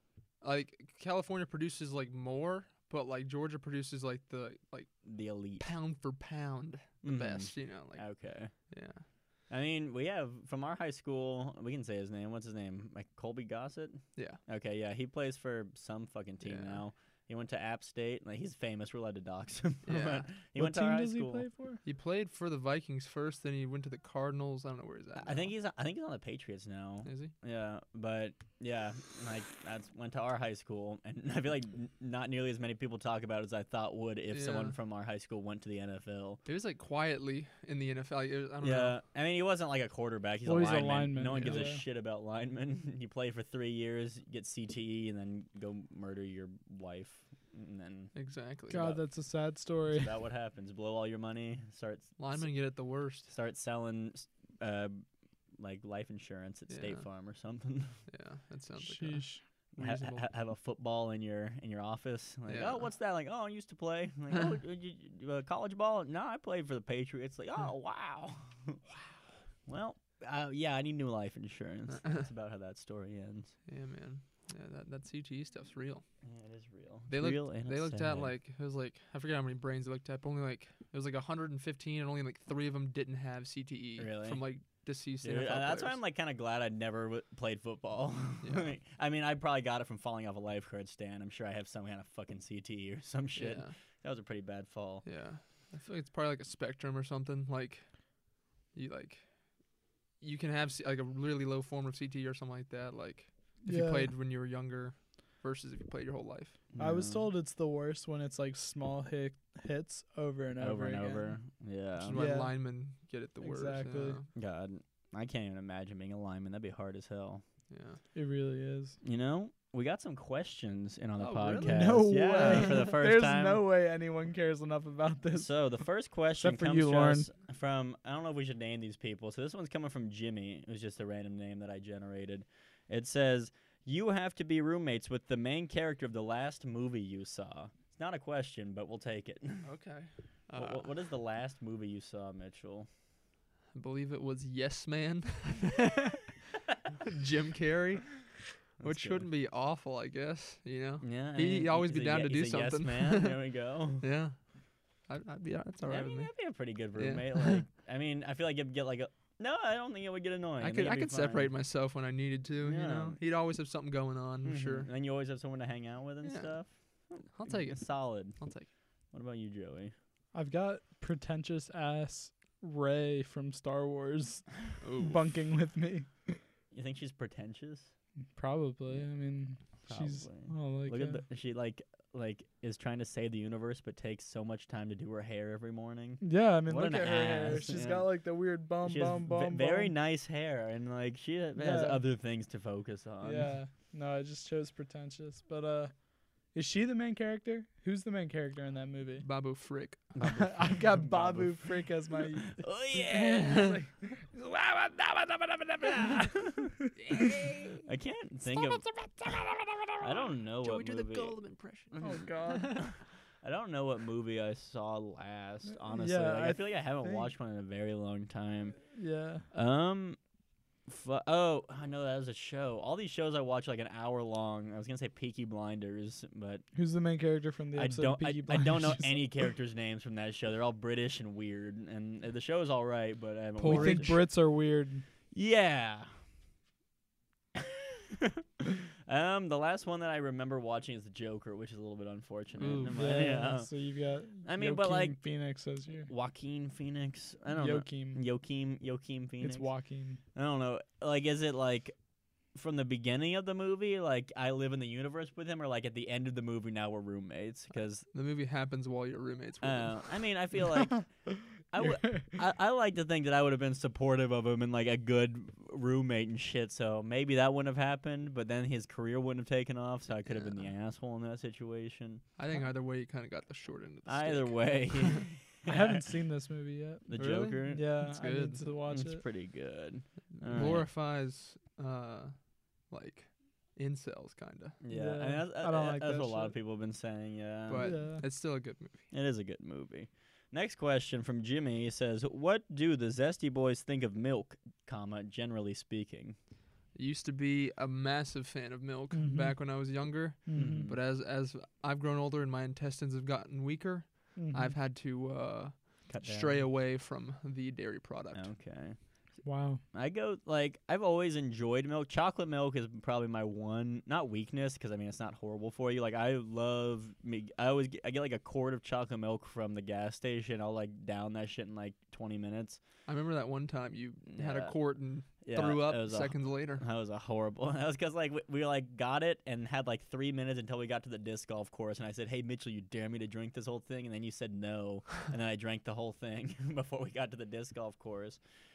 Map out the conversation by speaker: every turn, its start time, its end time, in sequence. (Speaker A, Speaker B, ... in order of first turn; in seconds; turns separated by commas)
Speaker A: 0.4-4.9, Speaker B: 5.0-5.7, Speaker A: 5.6-8.2, Speaker B: 7.0-8.5, Speaker A: 8.7-9.0, Speaker B: 9.5-21.4, Speaker A: 16.4-16.8, Speaker A: 19.9-20.3, Speaker C: 20.6-21.8, Speaker A: 21.9-25.5, Speaker B: 25.1-36.4, Speaker A: 27.0-27.3, Speaker A: 34.3-34.7, Speaker A: 36.5-39.0, Speaker B: 38.6-48.1, Speaker C: 40.4-41.8, Speaker A: 48.1-48.9, Speaker B: 48.7-49.0, Speaker C: 48.7-50.1, Speaker B: 49.9-52.5, Speaker A: 52.2-53.3, Speaker B: 53.3-55.0, Speaker B: 55.6-57.9, Speaker A: 56.7-57.0, Speaker A: 58.1-60.2, Speaker C: 58.8-59.4, Speaker B: 59.8-68.8, Speaker A: 62.5-62.9, Speaker B: 69.7-73.5, Speaker A: 71.9-72.2, Speaker A: 73.7-76.0, Speaker B: 76.2-78.3, Speaker A: 77.1-86.0, Speaker B: 84.0-84.4, Speaker B: 85.2-95.0, Speaker A: 88.4-88.7, Speaker A: 93.3-93.7, Speaker A: 95.0-99.7, Speaker A: 100.2-106.6, Speaker C: 103.6-104.1, Speaker B: 106.7-107.3, Speaker C: 106.8-111.4, Speaker B: 110.6-112.2, Speaker A: 112.0-114.3, Speaker C: 112.1-112.6, Speaker C: 113.4-114.2, Speaker B: 114.3-117.4, Speaker A: 117.7-118.0, Speaker C: 118.1-119.0, Speaker B: 119.0-123.6, Speaker A: 121.2-122.8, Speaker C: 121.6-125.5, Speaker B: 125.3-139.7, Speaker C: 126.4-127.3, Speaker A: 139.6-140.9, Speaker B: 140.5-142.9, Speaker A: 143.7-146.3, Speaker A: 147.0-153.4, Speaker B: 148.8-149.3, Speaker B: 151.0-154.1, Speaker A: 154.0-154.4, Speaker A: 155.0-156.3, Speaker B: 155.9-161.5, Speaker A: 156.9-157.6, Speaker A: 160.6-164.9, Speaker B: 162.6-163.2, Speaker B: 164.4-168.4, Speaker A: 166.2-168.7, Speaker B: 169.1-169.9, Speaker C: 170.3-176.4, Speaker A: 174.8-175.2, Speaker B: 176.7-177.9, Speaker C: 178.3-181.2, Speaker B: 179.8-188.2, Speaker C: 186.2-189.9, Speaker B: 188.8-193.5, Speaker C: 191.6-192.0, Speaker C: 193.2-199.2, Speaker A: 199.2-200.0, Speaker B: 200.1-203.7, Speaker C: 200.2-207.5, Speaker B: 205.9-206.7, Speaker A: 207.0-207.8, Speaker B: 207.8-208.9, Speaker B: 210.0-211.4, Speaker A: 210.0-212.9, Speaker B: 211.9-218.8, Speaker C: 212.0-212.8, Speaker C: 215.7-217.3, Speaker C: 218.9-219.5, Speaker B: 219.5-220.2, Speaker B: 220.9-226.6, Speaker C: 226.7-229.4, Speaker B: 227.7-234.2, Speaker A: 233.6-234.2, Speaker C: 233.7-235.0, Speaker B: 235.3-236.1, Speaker B: 237.5-243.7, Speaker A: 242.6-243.1, Speaker C: 242.9-246.1, Speaker B: 244.4-245.2, Speaker B: 246.1-249.7, Speaker C: 247.5-248.2, Speaker C: 249.4-250.2, Speaker B: 250.3-251.9, Speaker B: 252.5-258.1, Speaker A: 258.1-260.1, Speaker B: 259.6-272.2, Speaker C: 261.8-262.4, Speaker A: 270.3-270.6, Speaker A: 272.4-275.3, Speaker B: 274.1-276.0, Speaker C: 275.6-279.2, Speaker B: 277.1-277.9, Speaker A: 277.1-278.6, Speaker B: 278.9-280.9, Speaker A: 280.4-284.8, Speaker B: 284.8-288.1, Speaker C: 284.9-286.6, Speaker A: 287.7-289.1, Speaker C: 287.8-288.2, Speaker B: 289.1-296.4, Speaker A: 296.9-308.5, Speaker C: 299.1-299.8, Speaker C: 300.4-300.9, Speaker B: 300.5-301.0, Speaker C: 304.4-304.8, Speaker B: 306.1-306.6, Speaker B: 308.3-309.4, Speaker C: 309.4-309.8, Speaker B: 309.9-322.8, Speaker A: 323.1-326.8, Speaker B: 324.3-324.7, Speaker B: 325.4-338.4